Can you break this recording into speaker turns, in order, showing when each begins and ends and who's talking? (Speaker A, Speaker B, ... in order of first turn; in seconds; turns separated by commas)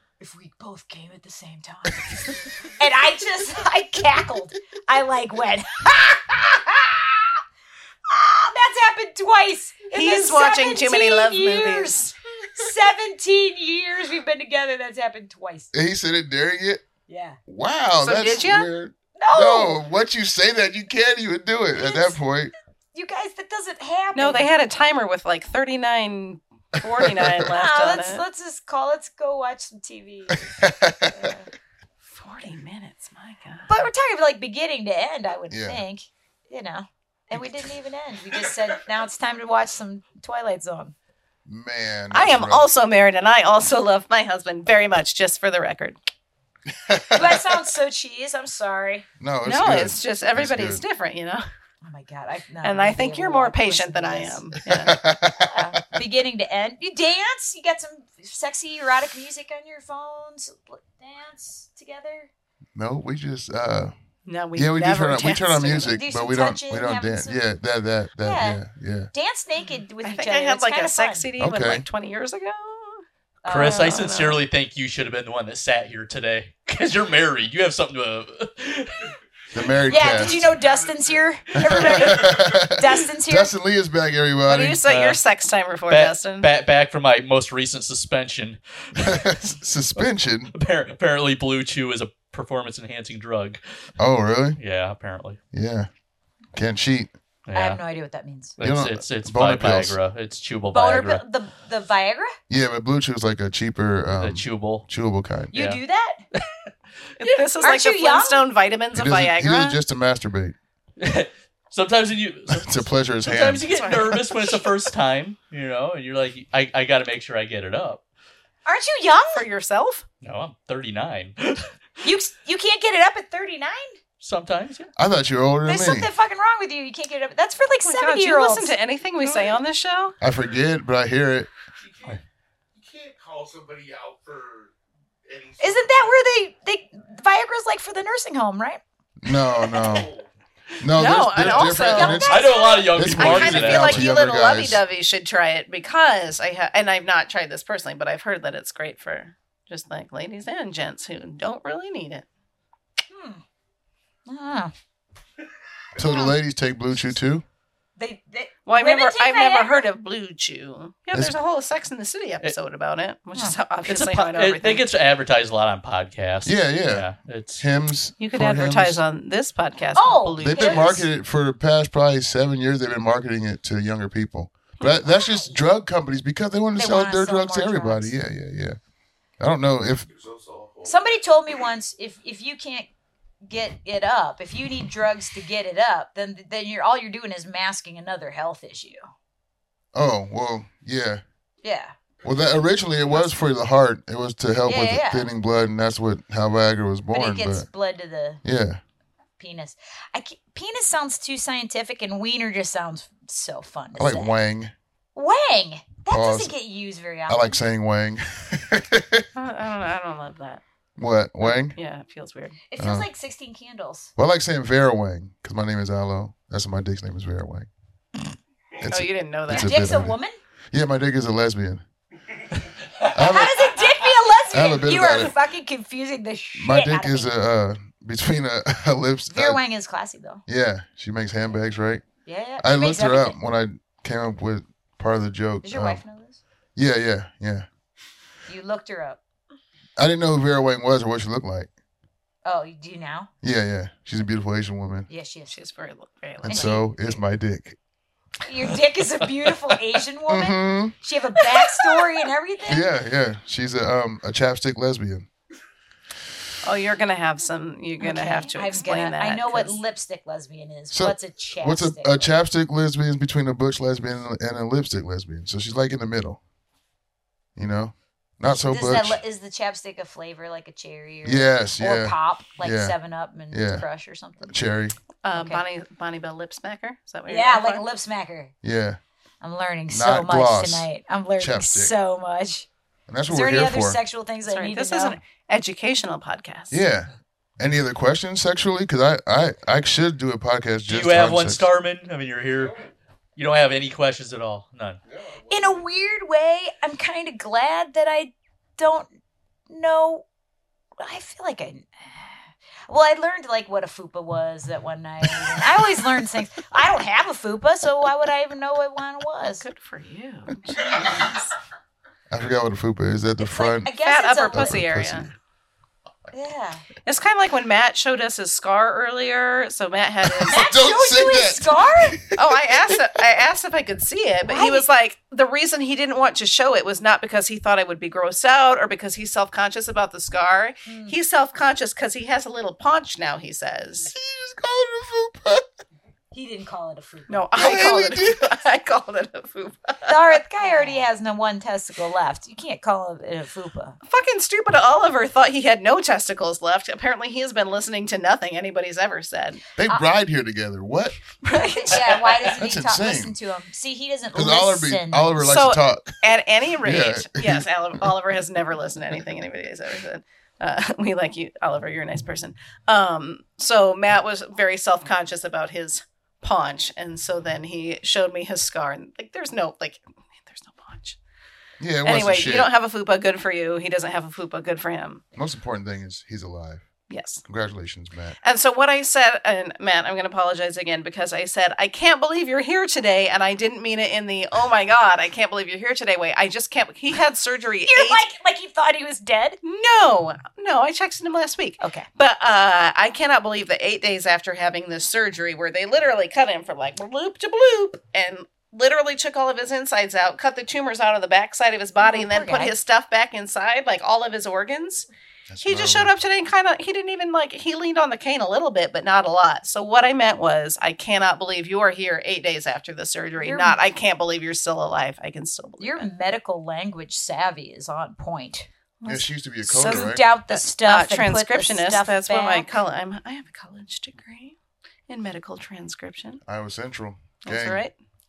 Speaker A: 0.2-7.4, Speaker A: 8.1-15.7, Speaker B: 9.9-12.1, Speaker C: 15.7-16.8, Speaker A: 17.1-17.4, Speaker C: 17.5-22.5, Speaker B: 18.0-18.7, Speaker A: 19.2-19.8, Speaker A: 21.7-22.2, Speaker A: 22.9-24.5, Speaker B: 24.1-28.2, Speaker C: 26.8-27.5, Speaker A: 27.5-30.5, Speaker C: 30.5-31.3, Speaker A: 31.1-31.5, Speaker B: 32.1-33.9, Speaker A: 33.7-41.0, Speaker C: 35.5-35.8, Speaker C: 41.5-42.7, Speaker B: 42.1-46.0, Speaker C: 46.7-47.5, Speaker A: 47.1-49.1, Speaker C: 49.2-50.8, Speaker B: 49.4-51.5, Speaker A: 51.8-54.5, Speaker B: 52.6-54.9, Speaker C: 54.7-55.8, Speaker A: 55.3-62.3, Speaker C: 62.8-63.9, Speaker B: 64.3-66.0, Speaker C: 64.6-69.1, Speaker A: 65.9-67.4, Speaker A: 68.2-68.6, Speaker A: 69.1-71.3, Speaker B: 70.0-74.4, Speaker C: 71.4-71.9, Speaker A: 73.4-74.0, Speaker D: 73.5-79.2, Speaker C: 79.5-80.4, Speaker A: 79.9-83.5, Speaker E: 79.9-82.6, Speaker C: 81.6-84.8, Speaker B: 84.5-86.5, Speaker D: 84.9-85.2, Speaker D: 85.9-89.5, Speaker C: 89.0-90.5, Speaker D: 90.0-93.6, Speaker C: 94.0-94.6, Speaker D: 94.6-95.4, Speaker C: 95.5-95.9, Speaker C: 96.5-97.1, Speaker D: 97.5-97.8, Speaker A: 97.5-98.6, Speaker D: 98.6-101.2, Speaker C: 98.6-100.0, Speaker A: 100.7-102.3, Speaker C: 102.5-105.5, Speaker D: 104.2-104.9, Speaker D: 105.5-105.8, Speaker A: 105.5-106.2, Speaker D: 106.3-106.7, Speaker B: 107.2-109.8, Speaker A: 107.6-108.4, Speaker C: 108.9-110.5, Speaker D: 111.0-118.0, Speaker C: 112.5-113.7, Speaker B: 113.7-114.6, Speaker A: 118.7-119.5, Speaker B: 119.3-120.0, Speaker D: 120.2-121.7, Speaker A: 122.0-124.0, Speaker D: 124.2-124.9, Speaker C: 125.0-126.1, Speaker A: 125.7-128.8, Speaker B: 127.9-130.2, Speaker C: 130.2-131.5, Speaker E: 131.8-132.2, Speaker E: 132.7-134.7, Speaker E: 135.3-136.2, Speaker A: 135.6-138.8, Speaker C: 139.2-140.1, Speaker E: 139.7-140.3, Speaker C: 140.8-144.8, Speaker B: 140.9-142.3, Speaker A: 141.4-143.0, Speaker D: 142.2-144.1, Speaker B: 143.2-152.2, Speaker A: 153.1-153.4, Speaker A: 154.3-154.7, Speaker C: 156.0-157.4, Speaker A: 156.0-156.3, Speaker A: 158.0-159.8, Speaker B: 158.7-164.8, Speaker D: 163.9-167.6, Speaker C: 166.4-169.0, Speaker B: 168.2-171.0, Speaker A: 169.9-171.0, Speaker C: 170.4-178.8, Speaker A: 175.1-175.6, Speaker A: 176.8-178.1, Speaker C: 179.4-180.1, Speaker E: 180.1-181.2, Speaker A: 180.8-182.9, Speaker A: 183.4-189.1, Speaker C: 189.9-191.2, Speaker A: 191.6-191.9, Speaker C: 192.2-197.7, Speaker A: 194.7-195.3, Speaker A: 197.1-198.4, Speaker C: 198.4-198.8, Speaker A: 199.4-204.3, Speaker C: 204.0-204.7, Speaker A: 205.2-207.6, Speaker C: 206.1-206.5, Speaker C: 207.3-209.3, Speaker B: 209.3-210.6, Speaker C: 211.0-211.8, Speaker B: 211.4-212.6, Speaker A: 212.7-214.1, Speaker C: 212.8-213.1, Speaker C: 214.2-217.7, Speaker C: 218.8-220.2, Speaker B: 218.9-219.7, Speaker A: 219.5-220.4, Speaker C: 220.7-221.8, Speaker C: 223.1-223.8, Speaker A: 223.1-227.3, Speaker C: 224.5-225.3, Speaker C: 226.6-229.6, Speaker A: 229.3-230.4, Speaker C: 230.5-232.0, Speaker A: 232.2-233.4, Speaker C: 232.6-236.0, Speaker A: 235.6-236.4, Speaker C: 236.8-237.7, Speaker A: 238.5-239.2, Speaker C: 240.0-241.7, Speaker A: 242.4-243.3, Speaker C: 243.4-245.1, Speaker A: 245.1-245.6, Speaker B: 245.5-246.8, Speaker C: 246.4-247.8, Speaker A: 246.5-246.8, Speaker A: 248.5-252.9, Speaker D: 249.3-249.9, Speaker C: 250.3-250.9, Speaker C: 252.7-255.3, Speaker B: 256.6-259.8, Speaker A: 258.0-262.3, Speaker C: 260.9-266.4, Speaker C: 267.6-269.2, Speaker A: 268.4-274.6, Speaker C: 271.2-273.0, Speaker C: 273.5-273.9, Speaker C: 274.5-275.0, Speaker B: 275.2-277.8, Speaker A: 275.3-275.6, Speaker A: 277.3-278.5, Speaker C: 278.6-279.0, Speaker A: 279.4-282.7, Speaker C: 279.9-280.9, Speaker C: 281.4-281.9, Speaker C: 283.1-284.0, Speaker A: 283.3-285.2, Speaker B: 284.5-286.8, Speaker C: 286.7-291.7, Speaker D: 290.9-292.8, Speaker E: 292.6-292.9, Speaker D: 293.4-295.0, Speaker E: 295.0-295.9, Speaker A: 295.5-299.1, Speaker A: 299.7-300.2, Speaker A: 301.0-302.4, Speaker A: 302.9-309.6, Speaker B: 309.6-311.5, Speaker C: 312.3-315.3, Speaker A: 313.4-314.8, Speaker B: 314.0-315.3, Speaker A: 316.3-316.9, Speaker B: 317.1-320.7, Speaker C: 320.2-323.1, Speaker A: 320.5-322.2, Speaker B: 322.4-334.1, Speaker A: 324.5-324.8, Speaker A: 330.9-331.1, Speaker C: 334.1-335.6, Speaker A: 336.3-337.8, Speaker B: 337.3-340.4, Speaker C: 337.6-338.5, Speaker A: 340.1-344.0, Speaker B: 344.1-349.6, Speaker C: 349.8-351.2, Speaker B: 351.4-352.3, Speaker A: 351.5-355.5, Speaker C: 352.5-353.4, Speaker C: 354.4-356.2, Speaker B: 355.4-371.2, Speaker C: 356.8-357.7, Speaker C: 371.8-372.7, Speaker B: 372.1-375.2, Speaker C: 375.4-376.9, Speaker B: 377.1-377.4, Speaker C: 377.4-378.4, Speaker B: 378.4-388.2, Speaker A: 387.9-389.6, Speaker B: 389.6-405.1, Speaker A: 391.8-392.1, Speaker A: 402.0-402.8, Speaker C: 405.5-406.1, Speaker B: 405.6-416.1, Speaker A: 413.4-413.8, Speaker A: 415.8-418.7, Speaker B: 419.0-424.6, Speaker C: 419.1-420.2, Speaker A: 419.6-422.7, Speaker B: 425.1-426.4, Speaker C: 426.5-427.9, Speaker B: 427.4-427.9